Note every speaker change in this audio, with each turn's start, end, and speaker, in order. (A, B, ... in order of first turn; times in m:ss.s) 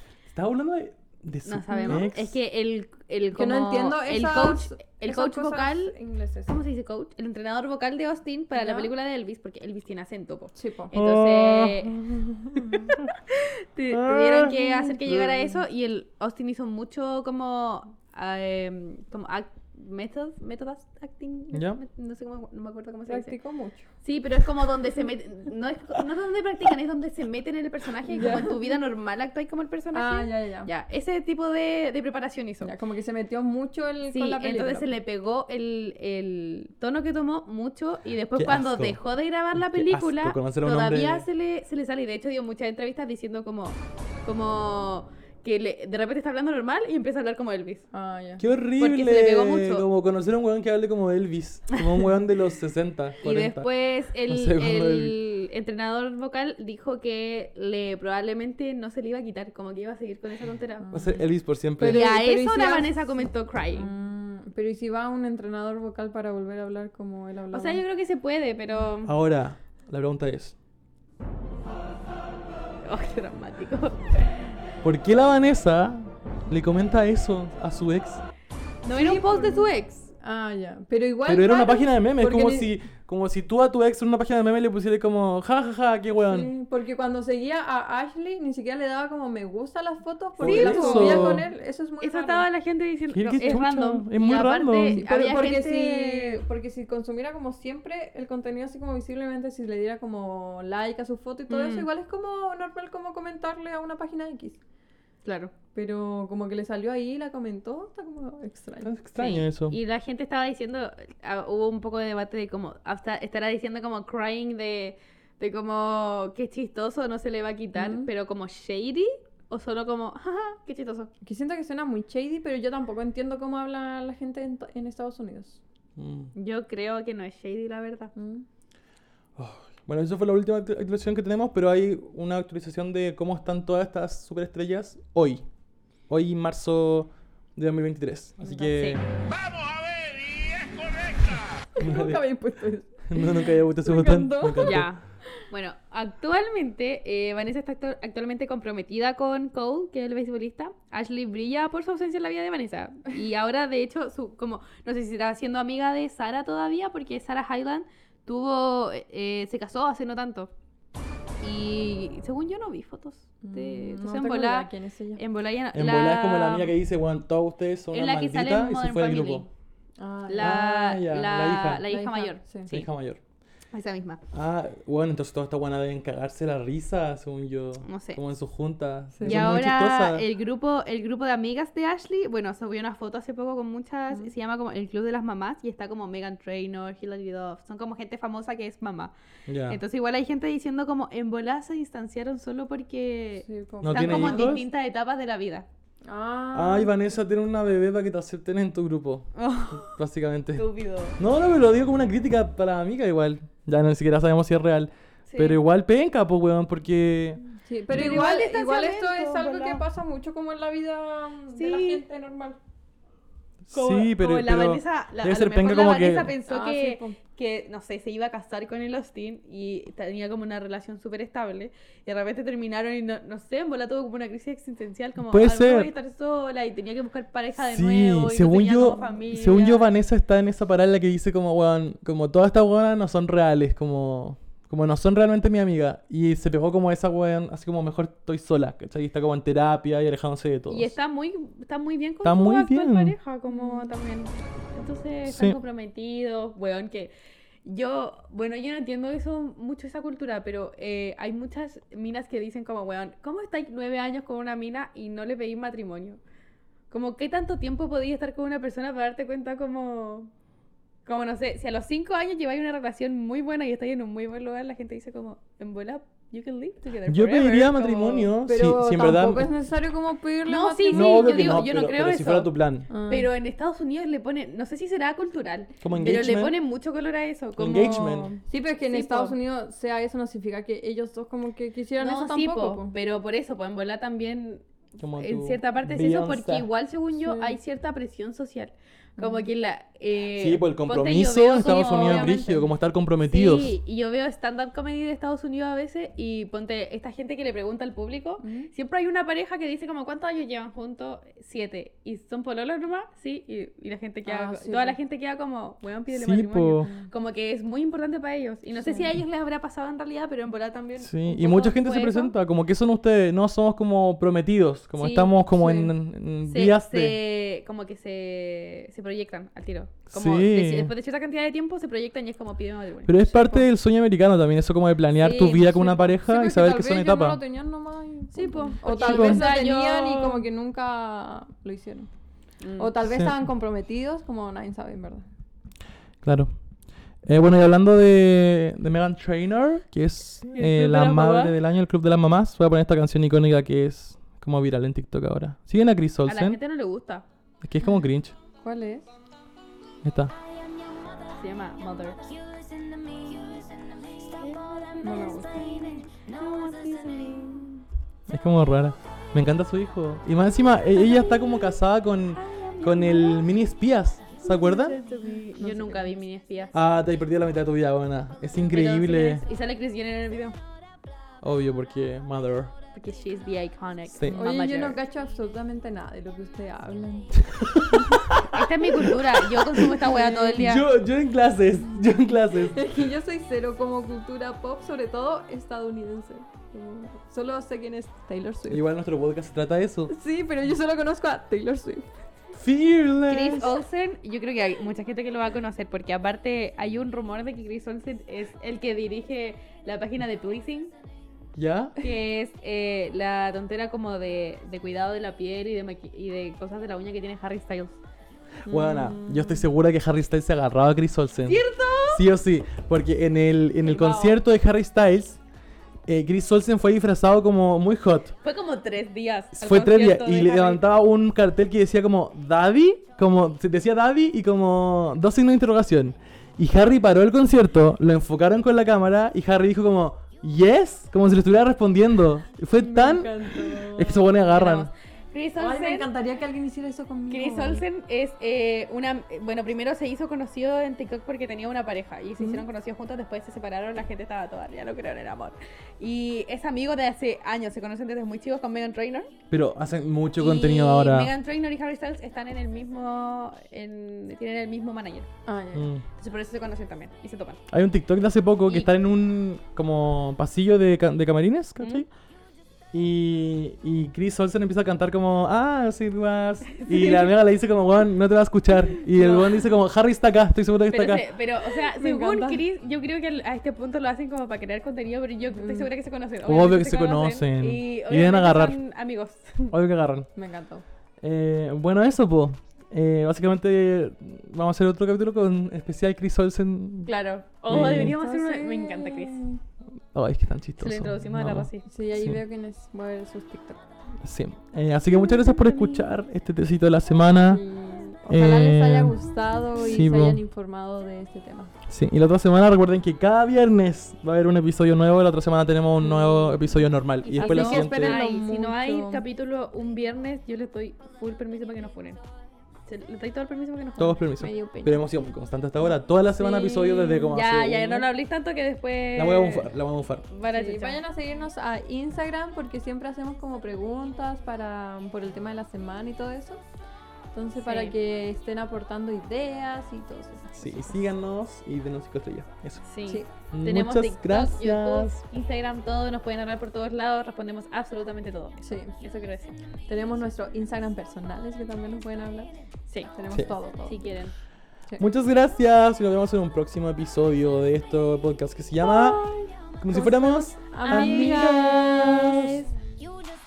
0:00.3-0:02.4 A
0:01.4-0:12.0 B
0:01.7-0:02.1 C
0:03.4-0:06.5 C
0:08.6-0:08.9 C
0:10.6-0:10.9 C
0:10.9-0:13.1 A
0:12.7-0:23.4 B
0:13.9-0:15.5 A
0:21.5-0:21.8 A
0:23.1-0:23.9 C
0:24.0-0:32.7 B
0:28.1-0:28.5 C
0:29.9-0:30.7 C
0:32.6-0:34.9 C
0:34.1-0:47.9 B
0:38.4-0:39.0 A
0:39.5-0:41.3 A
0:47.9-0:48.4 C
0:48.4-0:53.7 A
0:48.8-0:49.9 B
0:53.2-1:01.0 B
0:54.3-0:55.2 A
1:00.8-1:01.2 C
1:00.9-1:02.1 A
1:01.8-1:07.8 C
1:01.8-1:03.9 B
1:07.5-1:09.1 B
1:09.0-1:10.6 A
1:12.8-1:14.4 B
1:14.8-1:18.2 A
1:18.8-1:20.1 B
1:18.9-1:22.7 C
1:21.3-1:26.5 A
1:26.2-1:32.5 C
1:30.4-1:31.4 A
1:30.4-1:31.4 B
1:32.0-1:36.4 B
1:33.1-1:35.0 A
1:34.9-1:44.6 C
1:41.5-1:41.9 B
1:45.2-1:45.5 B
1:45.8-1:48.9 C
1:48.8-1:49.8 A
1:49.2-2:01.1 B
1:57.8-1:58.1 C
2:01.2-2:05.6 C
2:06.0-2:06.3 A
2:06.4-2:08.1 B
2:08.2-2:08.5 C
2:09.4-2:15.4 A
2:16.1-2:19.0 A
2:18.4-2:18.7 C
2:21.8-2:24.9 C
2:21.8-2:22.2 A
2:23.1-2:24.9 A
2:24.6-2:40.5 B
2:41.4-2:46.7 B
2:43.4-2:45.2 C
2:45.7-2:49.5 A
2:47.9-2:49.5 B
2:50.0-2:50.6 C
2:50.3-2:52.8 B
2:50.4-2:51.8 A
2:51.8-2:52.7 C
2:52.7-2:53.2 A
2:53.7-2:54.2 B
2:54.3-3:00.2 A
2:57.8-2:58.2 B
2:59.1-2:59.4 C
2:59.2-3:09.1 B
3:09.5-3:09.8 A
3:09.7-3:15.7 B
3:13.5-3:14.6 C
3:13.8-3:14.6 A
3:16.1-3:16.9 C
3:16.5-3:28.3 A
3:19.4-3:20.0 B
3:20.6-3:21.2 B
3:25.3-3:25.6 B
3:27.6-3:32.6 C
3:27.9-3:29.8 B
3:31.6-3:32.0 B
3:33.6-3:36.4 A
3:33.7-3:49.9 B
3:36.5-3:37.2 C
3:45.2-3:45.9 A
3:47.6-4:01.0 A
4:00.7-4:07.1 B
4:02.2-4:03.2 A
4:03.5-4:03.9 C
4:05.3-4:05.6 A
4:07.6-4:16.2 B
4:16.9-4:20.3 B
4:21.1-4:28.3 B
4:27.1-4:29.5 A
4:28.5-4:31.6 C
4:30.5-4:32.5 B
4:30.9-4:32.9 A
4:32.9-4:33.3 C
4:33.1-4:39.4 B
4:35.8-4:36.6 A
4:37.6-4:38.3 A
4:37.7-4:42.9 C
4:42.0-4:52.5 B
4:45.0-4:46.7 A
4:47.2-4:47.6 C
4:49.2-4:49.5 C
4:50.4-4:53.8 A
4:51.7-4:52.6 C
4:53.3-5:12.3 B
4:58.4-4:58.7 C
5:04.3-5:05.0 C
5:06.1-5:06.9 A
5:06.8-5:07.1 C
5:08.8-5:09.1 C
5:11.0-5:17.2 A
5:15.0-5:15.3 B
5:15.5-5:15.9 C
5:16.5-5:23.6 B
5:20.1-5:20.9 A
5:23.1-5:27.4 A
5:25.2-5:26.0 B
5:25.9-5:32.1 C
5:28.3-5:30.5 B
5:28.9-5:29.5 A
5:32.6-5:32.9 B
5:32.8-5:35.3 C
5:33.1-5:33.3 A
5:36.2-5:36.5 A
5:37.2-5:46.6 A
5:40.5-5:41.6 B
5:46.2-5:47.3 B
5:47.6-5:48.4 A
5:48.6-5:49.1 C
5:50.0-5:50.3 A
5:51.3-5:53.7 B
5:54.2-5:57.8 B
5:55.0-5:56.1 C
5:58.3-6:05.0 A
6:01.0-6:01.8 B
6:02.4-6:03.5 B
6:04.4-6:06.8 B
6:05.6-6:06.1 C
6:06.7-6:09.4 A
6:08.7-6:10.6 B
6:11.4-6:12.7 A
6:12.9-6:15.0 B
6:14.1-6:14.5 A
6:14.3-6:17.4 C
6:17.4-6:20.0 A
6:18.5-6:20.9 B
6:19.9-6:20.7 C
6:20.5-6:23.0 A
6:22.7-6:28.8 C
6:28.7-6:30.1 A
6:30.1-6:32.1 C
6:32.5-6:33.8 A
6:33.3-6:40.9 B
6:41.6-6:42.0 A
6:42.0-6:48.0 B
6:48.7-6:49.6 C
6:48.7-6:55.4 A
6:51.5-6:52.2 B
6:53.8-6:54.4 B
6:56.1-6:58.4 A
6:58.4-7:00.8 B
6:59.5-7:14.9 A
7:12.8-7:14.2 C
7:14.3-7:16.1 B
7:15.6-7:17.8 C
7:17.3-7:29.3 B
7:22.4-7:22.6 C
7:29.5-7:31.3 A
7:30.4-7:35.3 B
7:35.5-7:35.9 C
7:35.7-7:36.0 A
7:36.2-7:37.6 B
7:37.7-7:42.1 A
7:41.8-7:42.0 B
7:42.9-7:51.3 A
7:46.8-7:47.3 B
7:49.1-7:49.6 B
7:50.9-7:59.8 B
7:51.9-7:52.6 C
7:55.5-7:55.9 C
7:56.4-7:58.8 A
7:59.7-8:00.3 A
8:00.4-8:00.8 C
8:01.2-8:07.1 A
8:07.1-8:09.4 B
8:07.7-8:08.2 A
8:07.7-8:09.6 C
8:10.1-8:12.4 A
8:10.8-8:11.8 B
8:11.9-8:13.8 C
8:14.2-8:17.6 A
8:15.3-8:16.0 B
8:17.5-8:21.7 C
8:18.2-8:19.2 A
8:19.8-8:20.4 A
8:21.9-8:28.2 A
8:26.0-8:26.6 C
8:27.2-8:32.2 B
8:27.4-8:29.2 C
8:32.9-8:34.6 B
8:34.0-8:38.1 A
8:34.4-8:35.0 C
8:36.4-8:39.7 B
8:39.1-8:40.3 A
8:40.3-8:41.0 B
8:40.5-8:46.6 C
8:47.3-8:51.0 C
8:47.6-8:47.9 B
8:50.5-8:52.9 A
8:52.9-8:59.6 B
8:53.1-8:53.3 C
8:53.4-8:55.1 A
8:58.6-8:59.0 C
8:59.9-9:02.5 C
9:03.1-9:04.1 C
9:03.9-9:04.3 B
9:05.0-9:12.6 A
9:09.0-9:09.4 B
9:09.9-9:12.3 C
9:10.8-9:12.6 B